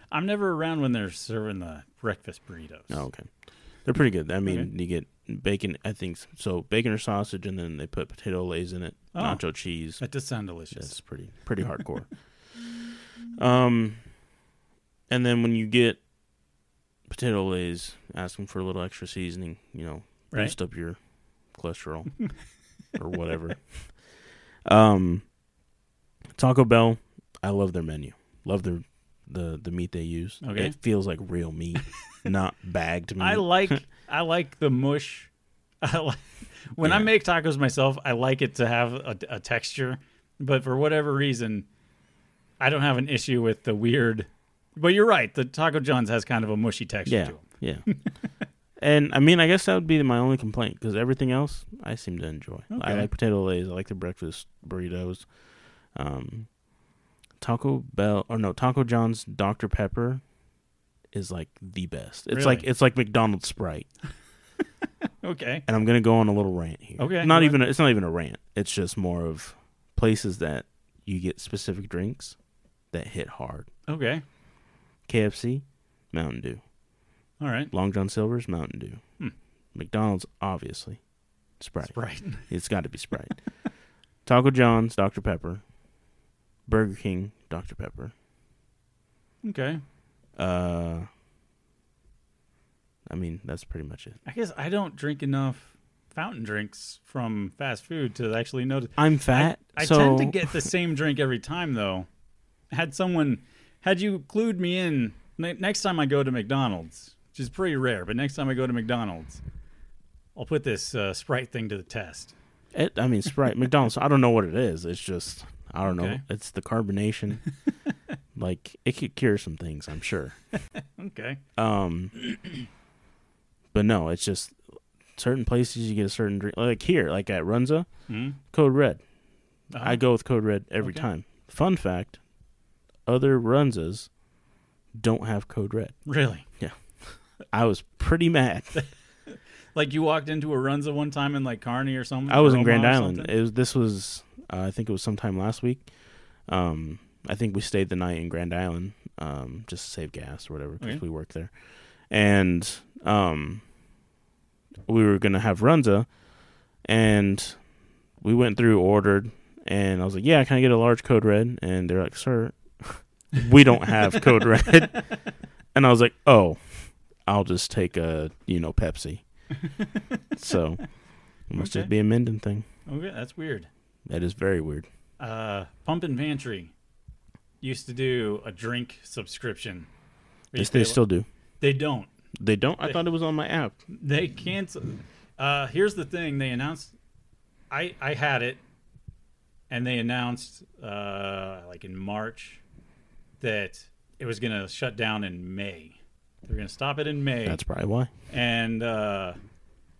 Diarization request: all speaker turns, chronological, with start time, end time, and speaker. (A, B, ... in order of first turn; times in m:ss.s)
0:00.1-0:03.1 A
0:02.9-0:12.8 B
0:04.4-0:04.7 A
0:09.1-0:11.0 A
0:13.4-0:14.1 B
0:15.1-0:16.0 B
0:17.1-0:24.0 B
0:24.6-0:25.3 B
0:26.4-0:33.8 B
0:30.4-0:30.8 A
0:33.2-0:35.3 A
0:35.8-0:41.7 A
0:36.8-0:37.1 B
0:42.6-0:48.4 A
0:47.0-0:48.1 B
0:48.8-0:56.6 B
0:52.7-0:53.1 A
0:57.4-1:00.2 B
1:01.1-1:03.9 B
1:02.3-1:02.7 A
1:05.2-1:05.6 A
1:05.7-1:12.4 B
1:07.0-1:07.6 A
1:12.9-1:13.7 B
1:13.9-1:14.2 A
1:15.1-1:16.6 B
1:17.4-1:17.7 A
1:17.7-1:19.0 B
1:19.7-1:21.0 B
1:21.6-1:23.7 B
1:21.8-1:22.5 A
1:24.2-1:25.6 B
1:26.6-1:28.1 B
1:29.4-1:29.8 A
1:30.4-1:31.1 B
1:33.1-1:34.2 B
1:34.2-1:42.1 A
1:39.0-1:40.7 B
1:42.7-1:49.4 A
1:50.3-1:52.3 A
1:52.7-1:57.5 B
1:55.8-1:56.2 A
1:58.3-2:00.4 B
2:01.0-2:01.4 A
2:01.6-2:02.2 B
2:03.7-2:12.2 B
2:08.1-2:08.4 A
2:09.7-2:10.0 A
2:10.8-2:11.1 A
2:13.0-2:14.2 B
2:15.0-2:18.9 B
2:16.0-2:16.4 A
2:18.7-2:23.4 A
2:22.3-2:33.7 B
2:34.9-2:45.1 B
2:45.7-2:49.5 B
2:49.5-2:50.2 A
2:50.4-2:52.6 B
2:51.6-2:51.9 A
2:52.8-2:53.7 A
2:54.1-2:54.9 B
2:55.2-2:56.7 A
2:57.6-2:59.9 A
3:00.5-3:01.0 A
3:00.5-3:01.3 B
3:01.6-3:02.1 A
3:02.4-3:03.8 B
3:03.9-3:07.0 A
3:07.7-3:08.6 A
3:09.7-3:12.6 A
3:13.4-3:17.6 A
3:17.4-3:18.1 B
3:18.3-3:19.4 A